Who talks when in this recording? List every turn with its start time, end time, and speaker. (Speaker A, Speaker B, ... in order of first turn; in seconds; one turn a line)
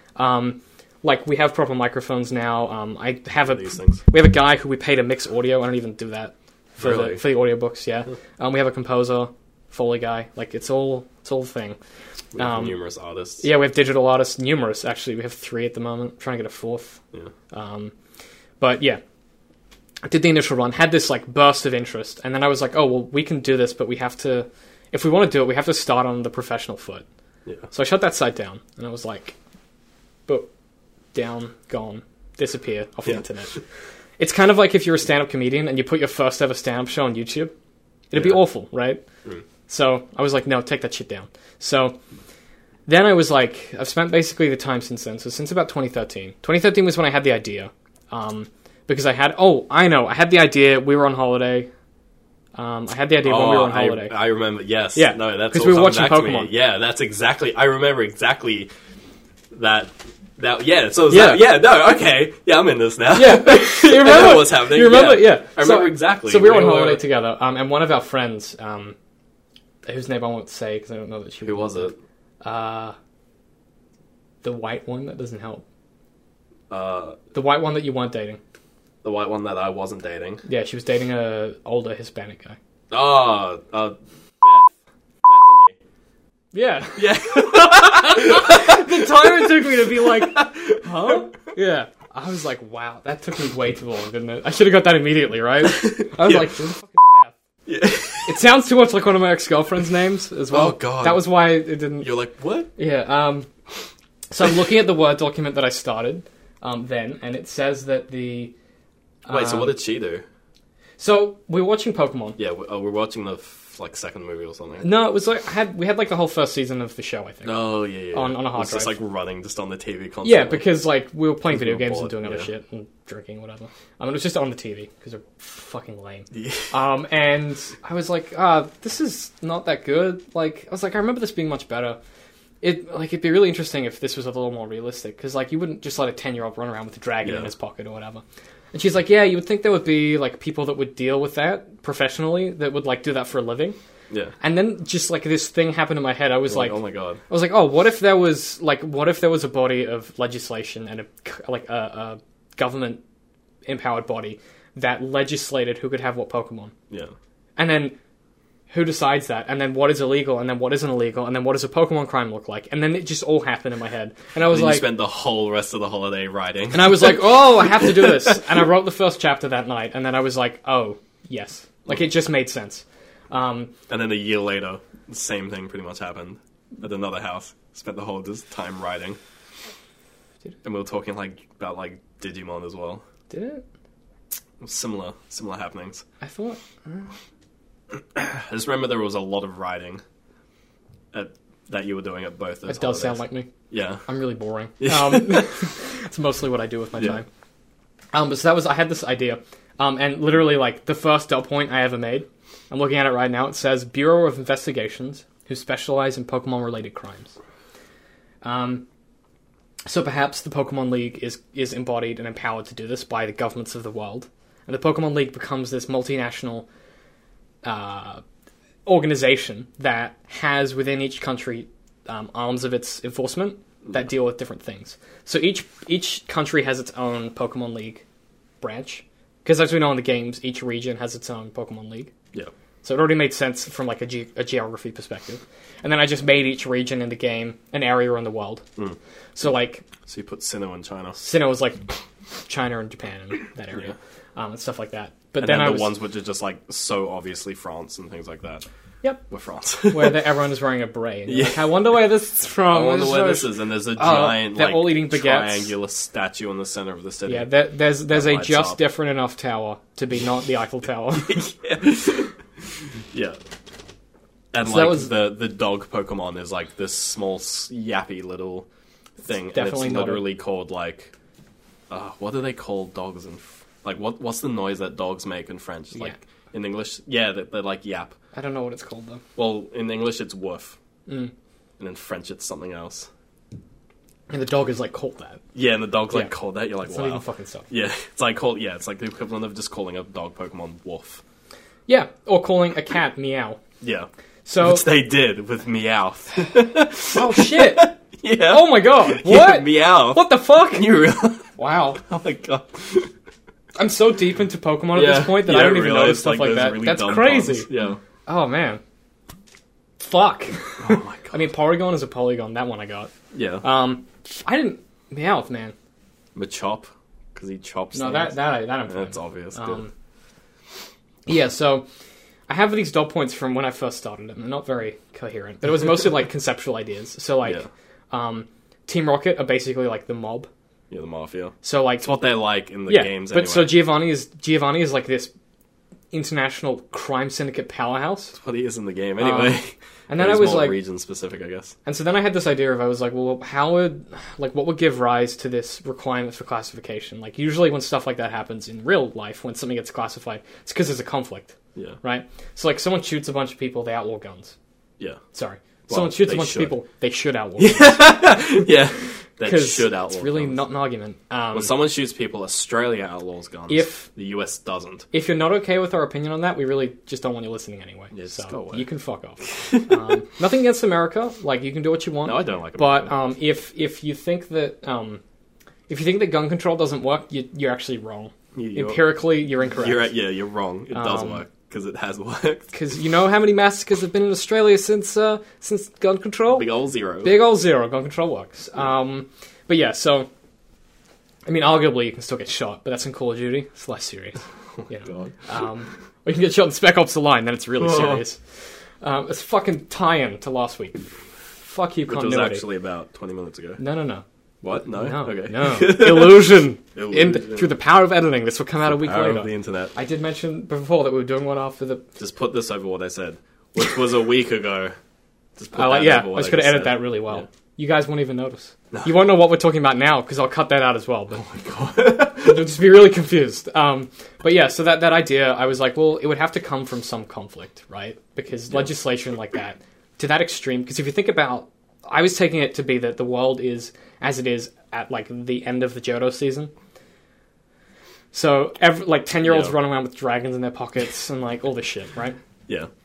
Speaker A: 0.2-11.8
Speaker B: 3.5-4.0
Speaker B: 6.8-7.3
Speaker B: 12.3-13.5
Speaker A: 12.4-12.8
Speaker A: 13.4-17.0
Speaker A: 17.5-17.9
Speaker A: 18.6-19.0
Speaker A: 20.1-27.1
Speaker A: 27.7-29.4
Speaker A: 31.1-33.5
Speaker A: 34.2-37.5
Speaker A: 38.1-39.0
Speaker B: 38.1-38.4
Speaker A: 39.7-42.0
Speaker A: 42.9-51.7
Speaker A: 52.5-54.2
Speaker B: 53.2-58.7
Speaker A: 55.0-56.5
Speaker B: 59.5-67.0
Speaker A: 61.1-61.6
Speaker A: 63.1-69.0
Speaker A: 69.8-73.0
Speaker B: 71.4-72.0
Speaker A: 74.4-75.6
Speaker B: 76.7-77.2
Speaker A: 77.3-78.4
Speaker B: 79.0-80.4
Speaker A: 80.5-82.6
Speaker B: 82.9-85.8
Speaker A: 86.5-97.4
Speaker B: 87.0-91.3
Speaker B: 95.8-96.5
Speaker B: 97.7-98.3
Speaker A: 98.2-102.2
Speaker B: 100.5-101.4
Speaker B: 102.0-102.7
Speaker A: 102.8-103.5
Speaker A: 104.3-108.5
Speaker A: 109.3-109.8
Speaker B: 109.3-110.2
Speaker A: 111.0-112.4
Speaker B: 112.4-114.9
Speaker A: 114.8-119.0
Speaker B: 117.5-120.7
Speaker A: 120.2-132.0
Speaker B: 121.5-122.5
Speaker B: 126.3-126.7
Speaker A: 132.6-138.2
Speaker B: 137.2-137.5
Speaker A: 138.7-143.8
Speaker B: 144.1-144.3
Speaker A: 144.4-153.0
Speaker B: 146.5-147.2
Speaker A: 153.7-156.7
Speaker A: 157.6-158.0
Speaker A: 158.7-164.9
Speaker B: 164.5-168.5
Speaker A: 166.7-173.7
Speaker B: 173.9-179.2
Speaker B: 180.6-183.0
Speaker A: 183.3-183.6
Speaker B: 184.6-186.0
Speaker A: 186.2-187.1
Speaker B: 187.9-190.0
Speaker B: 191.1-194.1
Speaker A: 192.7-193.5
Speaker A: 194.1-197.3
Speaker B: 194.8-195.5
Speaker A: 198.1-207.3
Speaker A: 208.4-208.9
Speaker A: 209.9-216.7
Speaker A: 217.6-218.2
Speaker A: 218.9-228.0
Speaker A: 228.6-232.1
Speaker A: 232.8-238.7
Speaker A: 239.4-239.9
Speaker B: 240.1-241.2
Speaker A: 241.2-245.9
Speaker B: 245.4-248.7
Speaker B: 249.3-250.2
Speaker A: 249.9-255.7
Speaker B: 251.3-251.8
Speaker B: 252.7-257.5
Speaker A: 257.3-261.5
Speaker B: 258.1-258.8
Speaker B: 261.3-262.4
Speaker B: 263.1-263.4
Speaker B: 264.5-268.7
Speaker A: 264.6-265.1
Speaker B: 269.2-271.1
Speaker A: 269.5-270.3
Speaker B: 271.9-278.1
Speaker A: 278.3-279.2
Speaker B: 279.4-280.8
Speaker A: 281.1-281.3
Speaker B: 281.8-283.1
Speaker A: 284.3-285.4
Speaker B: 285.5-291.2
Speaker A: 286.1-287.7
Speaker A: 291.9-293.6
Speaker B: 293.8-303.1
Speaker A: 294.4-294.9
Speaker A: 297.1-301.0
Speaker A: 301.6-302.0
Speaker A: 303.8-307.7
Speaker B: 304.9-308.0
Speaker A: 308.3-308.8
Speaker A: 310.0-313.1
Speaker B: 310.8-311.3
Speaker B: 313.3-313.6
Speaker A: 313.6-315.7
Speaker B: 316.4-319.8
Speaker A: 317.9-319.9
Speaker A: 321.3-321.9
Speaker A: 322.5-330.5
Speaker B: 330.9-333.9
Speaker A: 331.6-332.1
Speaker A: 332.9-335.3
Speaker A: 336.1-338.4
Speaker B: 338.4-341.8
Speaker A: 339.2-340.8
Speaker A: 341.9-354.6
Speaker A: 355.3-358.4
Speaker B: 355.9-356.8
Speaker B: 357.6-360.6
Speaker A: 359.4-361.7
Speaker B: 361.5-365.1
Speaker A: 363.7-364.1
Speaker A: 365.1-375.2
Speaker B: 368.1-368.8
Speaker B: 372.2-373.1
Speaker A: 375.9-380.1
Speaker B: 378.6-379.1
Speaker B: 379.8-382.7
Speaker A: 380.9-381.4
Speaker A: 382.7-386.7
Speaker B: 386.5-387.4
Speaker A: 387.2-390.3
Speaker A: 391.5-398.4
Speaker B: 395.0-395.4
Speaker B: 397.8-398.3
Speaker A: 399.0-402.7
Speaker B: 402.1-403.8
Speaker A: 403.8-404.2
Speaker B: 404.6-407.7
Speaker A: 404.8-412.1
Speaker B: 408.8-409.9
Speaker B: 412.2-415.0
Speaker B: 415.6-417.5
Speaker A: 415.7-421.4
Speaker B: 421.4-422.8
Speaker A: 422.2-436.7
Speaker A: 438.3-442.4
Speaker B: 439.4-439.8